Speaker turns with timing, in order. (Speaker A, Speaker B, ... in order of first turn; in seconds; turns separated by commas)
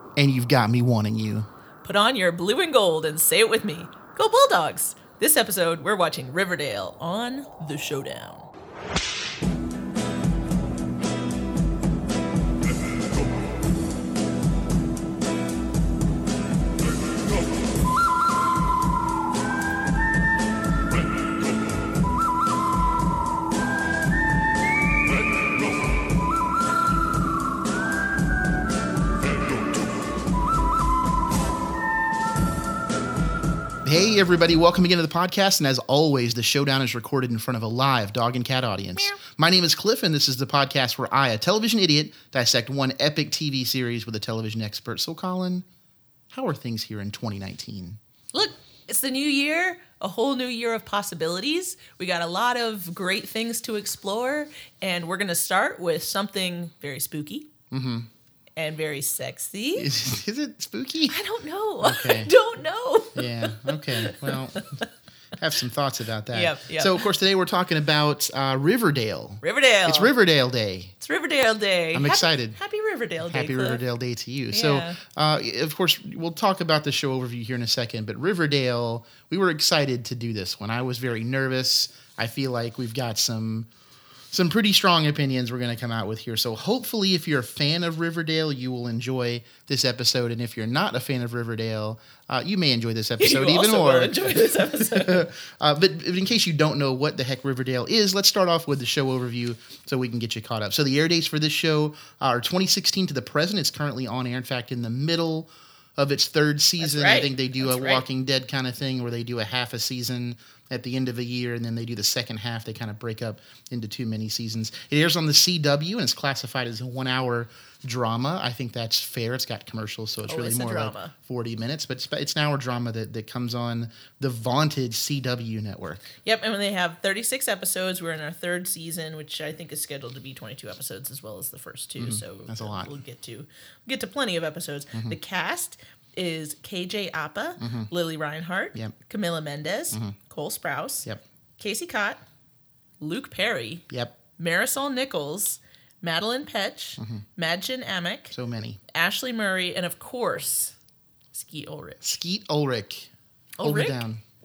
Speaker A: 0.1-1.5, Speaker B: 1.8-8.5, Speaker A: 33.8-45.6, Speaker A: 46.3-48.0, Speaker B: 48.3-57.5, Speaker A: 57.7-58.1, Speaker B: 58.5-59.9, Speaker A: 59.8-61.2, Speaker B: 61.1-64.8, Speaker A: 61.8-62.3, Speaker A: 63.1-64.7, Speaker A: 65.4-70.9, Speaker B: 66.3-67.1, Speaker B: 69.4-70.1, Speaker B: 71.0-73.8, Speaker A: 71.9-72.6, Speaker A: 73.3-83.7, Speaker B: 74.5-75.0, Speaker A: 84.3-126.2, Speaker B: 93.2-95.3, Speaker B: 106.8-108.0, Speaker B: 120.3-121.1, Speaker B: 126.2-141.1, Speaker A: 132.0-132.9, Speaker A: 137.6-137.9, Speaker B: 141.6-142.2, Speaker B: 143.0-143.8, Speaker A: 143.9-144.2, Speaker B: 144.4-148.3, Speaker A: 147.0-147.2, Speaker A: 148.3-148.8, Speaker B: 148.9-150.7, Speaker B: 151.3-152.0, Speaker A: 152.0-153.1, Speaker B: 153.6-154.0, Speaker A: 153.6-154.2